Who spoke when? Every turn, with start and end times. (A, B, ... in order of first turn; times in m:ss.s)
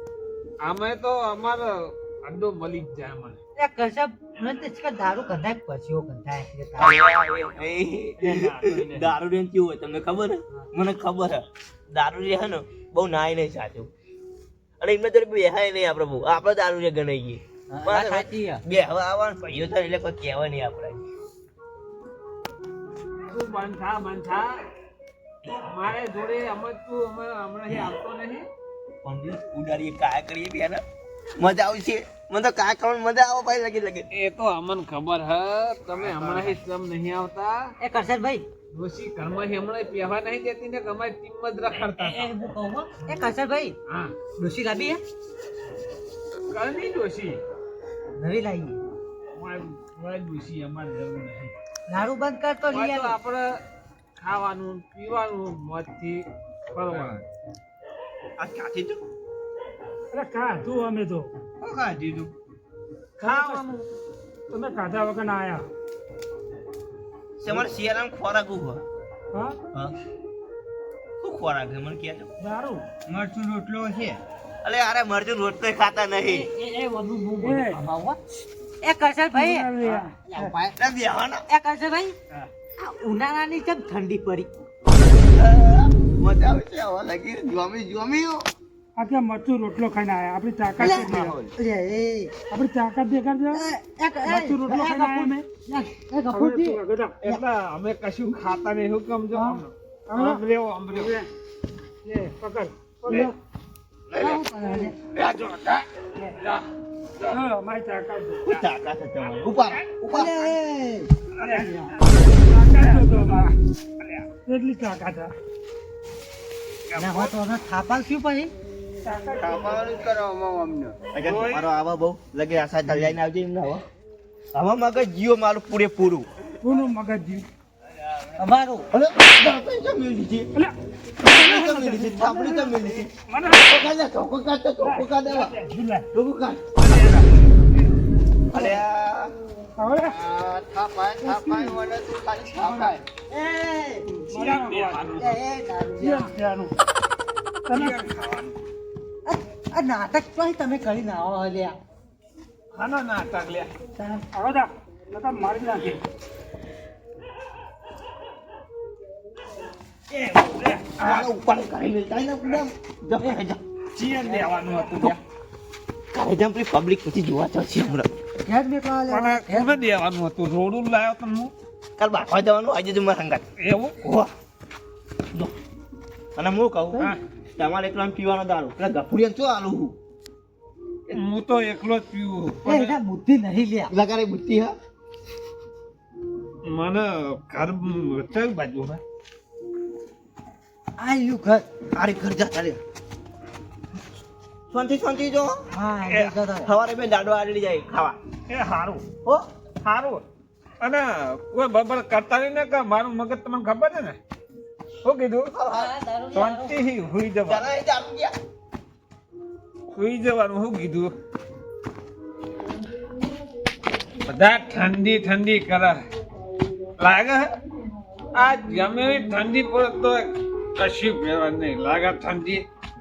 0:00.6-0:03.4 A
0:03.6-0:07.0 B
0:06.8-0:13.9 C
0:08.3-0:09.1 A
0:14.8-0:21.0 C
0:17.7-0:18.6 B
0:23.3-0:24.6 A
0:25.7-0:28.5 A
0:29.0-0:30.8 C
0:31.4-0:34.1 C
0:34.1-0:37.7 A
0:37.8-0:38.4 B
0:38.7-0:42.3 A
0:42.0-0:43.8 B
0:43.9-0:44.2 A
0:44.4-0:45.0 B
0:46.5-0:47.4 A
0:48.2-0:48.8 B
0:49.4-0:51.5 A
0:51.9-0:53.2 B
0:52.7-0:53.6 A
0:54.2-0:57.2 A
0:58.4-0:59.0 C
1:00.1-1:01.3 D
1:01.6-1:02.3 E
1:03.2-1:03.9 A
1:03.2-1:03.7 D
1:04.5-1:05.7 D
1:07.4-1:08.8 C
1:09.3-1:09.6 D
1:11.2-1:12.3 C
1:12.4-1:12.9 D
1:13.1-1:14.2 E
1:14.6-1:16.5 C
1:16.6-1:18.2 B
1:16.8-1:17.2 A
1:17.4-1:17.8 D
1:18.8-1:19.7 B
1:19.3-1:20.6 D
1:20.3-1:20.7 B
1:20.8-1:21.4 C
1:21.5-1:22.2 B
1:22.8-1:24.5 B
1:25.3-1:28.5 C
1:29.0-1:31.4 D
1:30.8-1:32.3 B
1:30.8-1:31.2 E
1:32.5-1:33.7 D
1:33.5-1:37.4 B
1:34.2-1:35.4 D
1:36.3-1:37.2 D
1:37.2-1:41.2 A
1:39.3-1:41.3 D
1:42.0-1:43.3 D
1:43.1-1:43.3 A
1:44.1-1:44.4 C
1:44.2-1:45.0 B
1:44.6-1:44.9 D
1:45.2-1:46.7 A
1:47.3-1:48.5 D
1:48.4-1:50.4 C
1:50.1-1:51.1 B
1:51.4-1:54.2 A
1:51.4-1:51.9 D
1:52.6-1:53.5 D
1:54.5-1:55.3 D
1:56.9-1:57.3 A
1:57.0-1:58.5 B
1:59.0-1:59.8 D
1:59.4-2:01.0 E
2:01.1-2:03.8 C
2:01.2-2:01.7 A
2:04.5-2:06.3 C
2:06.6-2:07.4 D
2:08.4-2:08.9 B
2:08.9-2:10.5 C
2:10.5-2:13.9 D
2:11.2-2:15.6 C
2:14.8-2:16.1 D
2:16.1-2:16.8 C
2:16.8-2:17.2 D
2:18.5-2:19.3 C
2:19.8-2:20.2 D
2:20.0-2:23.0 E
2:21.2-2:21.8 D
2:22.6-2:23.0 D
2:23.3-2:24.1 B
2:24.3-2:25.0 D
2:24.3-2:25.4 A
2:25.2-2:26.3 B
2:26.0-2:26.8 D
2:27.7-2:28.1 D
2:27.7-2:28.6 A
2:29.3-2:31.8 B
2:32.7-2:33.7 A
2:34.0-2:36.0 D
2:40.2-2:41.3 A
2:41.0-2:43.6 C
2:44.0-2:45.2 A
2:46.1-2:48.1 C
2:48.4-2:49.8 B
2:49.1-2:51.5 A
2:52.0-2:53.4 C
2:53.6-2:54.0 A
2:54.0-2:54.3 C
2:56.4-3:00.0 C
3:01.1-3:03.0 A
3:02.6-3:03.9 B
3:03.9-3:04.8 C
3:06.6-3:09.0 A
3:11.0-3:11.7 B
3:11.9-3:12.8 C
3:14.7-3:15.6 C
3:15.7-3:16.7 B
3:16.1-3:16.4 A
3:16.6-3:18.2 C
3:18.5-3:19.0 A
3:19.8-3:20.2 A
3:20.8-3:24.2 A
3:25.0-3:25.5 A
3:25.5-3:25.9 C
3:25.7-3:26.8 B
3:26.3-3:27.7 A
3:27.5-3:28.4 C
3:29.9-3:31.1 A
3:34.3-3:36.0 A
3:37.0-3:37.5 A
3:38.4-3:42.6 A